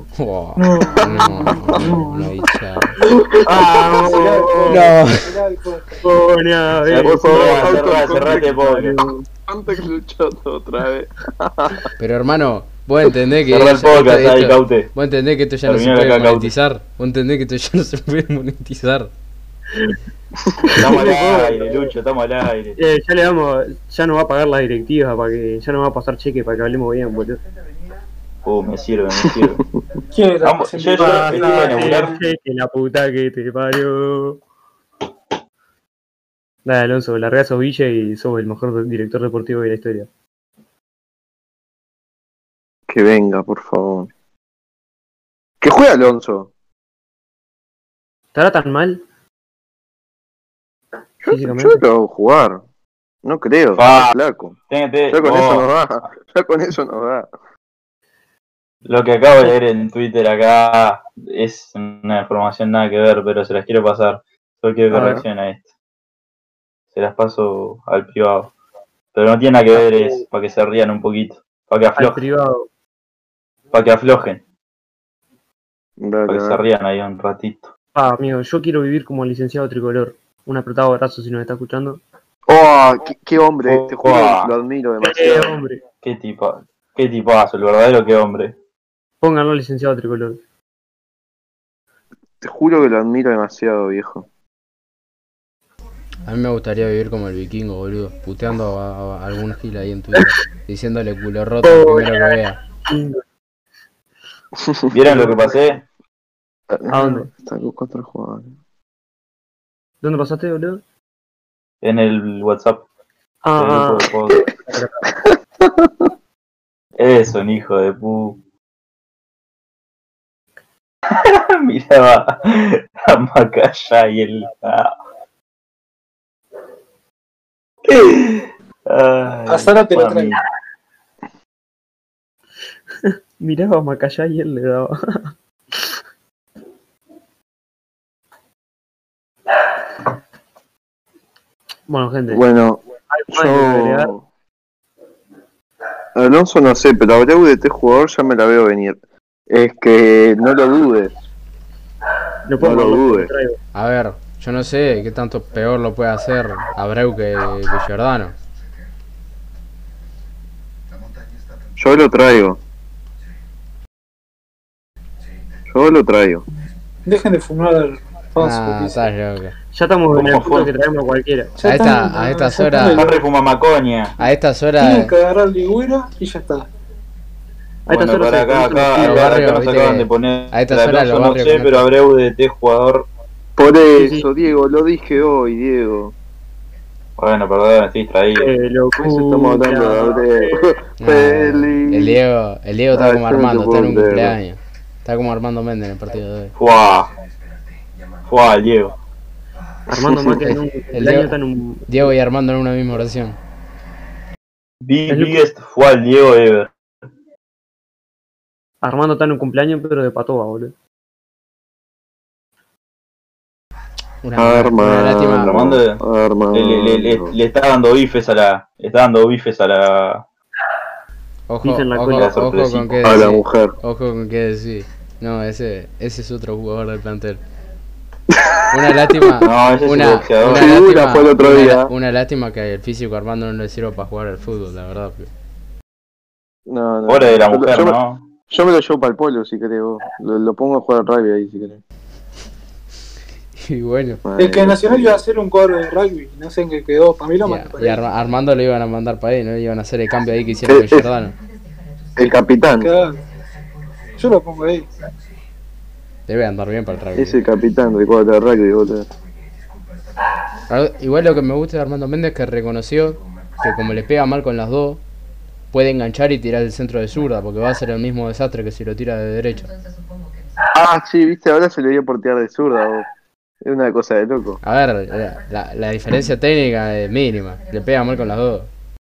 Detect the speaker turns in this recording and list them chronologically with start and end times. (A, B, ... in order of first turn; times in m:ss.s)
0:00.1-0:03.0 A
0:00.6-0:02.4 B
0:03.0-0:04.7 C
0:03.4-0:04.6 D
0:03.6-0:04.6 E
0:04.0-0:06.1 B
0:04.7-0:05.3 A
0:06.0-0:09.2 E
0:06.9-0:08.9 D
0:06.9-0:08.5 C
0:09.5-0:11.8 C
0:12.0-0:19.1 A
0:13.5-0:14.9 D
0:15.6-0:16.5 D
0:19.7-0:20.0 E
0:20.4-0:21.1 C
0:20.6-0:21.9 E
0:20.7-0:22.8 D
0:22.8-0:27.4 E
0:28.4-0:29.6 D
0:30.1-0:32.2 B
0:30.4-0:32.1 D
0:31.0-0:34.4 E
0:36.6-0:40.1 E
0:42.9-0:44.1 C
0:45.6-0:46.5 C
0:48.3-0:49.0 E
0:51.2-0:52.6 C
0:51.2-0:51.8 E
0:53.2-0:54.6 C
0:53.7-0:54.1 D
0:54.7-0:55.7 D
0:55.1-0:57.3 C
0:58.8-1:05.6 D
1:04.9-1:05.2 E
1:04.9-1:05.2 C
1:06.9-1:08.5 D
1:09.1-1:12.2 D
1:09.7-1:10.2 E
1:12.0-1:12.7 E
1:13.7-1:14.4 D
1:16.0-1:16.6 C
1:16.3-1:17.7 D
1:17.9-1:22.0 E
1:22.5-1:25.6 C
1:23.6-1:24.5 D
1:25.0-1:25.8 E
1:26.0-1:28.6 D
1:29.2-1:30.4 E
1:32.4-1:34.3 C
1:36.3-1:42.6 A
1:41.6-1:43.2 E
1:44.6-1:44.9 C
1:44.9-1:45.8 D
1:46.7-1:48.5 C
1:46.9-1:47.3 E
1:50.0-1:50.8 E
1:51.8-1:52.8 D
1:53.4-1:55.0 E
1:53.6-1:54.5 D
1:55.1-1:56.1 C
1:57.0-1:58.4 D
2:01.1-2:05.0 D
2:07.8-2:10.4 D
2:09.4-2:10.4 B
2:13.0-2:16.0 E
2:21.9-2:22.4 E
2:22.3-2:24.2 C
2:23.1-2:24.1 E
2:26.1-2:31.1 C
2:32.4-2:33.6 E
2:32.6-2:33.3 C
2:33.7-2:38.4 A
2:41.8-2:42.6 C
2:45.7-2:46.4 C
2:47.0-2:49.1 B
2:48.4-2:49.6 A
2:49.7-2:51.6 E
2:50.1-2:50.7 D
2:51.6-2:53.2 B
2:51.6-2:53.1 A
2:52.9-2:54.2 D
2:54.2-2:55.1 A
2:54.8-2:56.7 B
2:57.9-2:59.4 E
2:57.9-3:03.1 D
2:59.0-3:01.9 A
3:03.6-3:06.1 C
3:03.9-3:04.3 E
3:07.2-3:08.5 D
3:08.4-3:10.7 E
3:09.0-3:12.2 C
3:11.0-3:16.5 A
3:12.9-3:14.4 C
3:16.6-3:17.1 D
3:18.3-3:18.9 D
3:19.9-3:20.6 C
3:19.9-3:22.1 E
3:20.9-3:21.3 A
3:21.9-3:23.4 A
3:24.8-3:26.7 D
3:25.1-3:25.4 E
3:28.8-3:30.7 E
3:34.2-3:35.7 A
3:34.4-3:37.4 C
3:35.4-3:40.2 D
3:41.5-3:47.4 A
3:41.6-3:42.4 E
3:42.1-3:43.3 D
3:43.0-3:43.8 C
3:48.3-3:49.5 C
3:48.7-3:55.3 A
3:49.4-3:50.8 D
3:50.4-3:51.9 C
3:56.7-3:58.0 C
3:57.1-3:58.2 D
3:58.5-4:01.8 C
4:03.6-4:04.2 A
4:04.2-4:05.2 C
4:04.4-4:08.0 B
4:07.4-4:11.4 A
4:10.6-4:11.1 C
4:12.2-4:12.9 C
4:12.8-4:13.2 B
4:14.2-4:14.9 B
4:16.3-4:17.4 A
4:17.2-4:19.1 C
4:20.7-4:25.0 A
4:25.7-4:29.7 A
4:30.7-4:33.0 C
4:33.6-4:34.6 C
4:34.6-4:38.7 A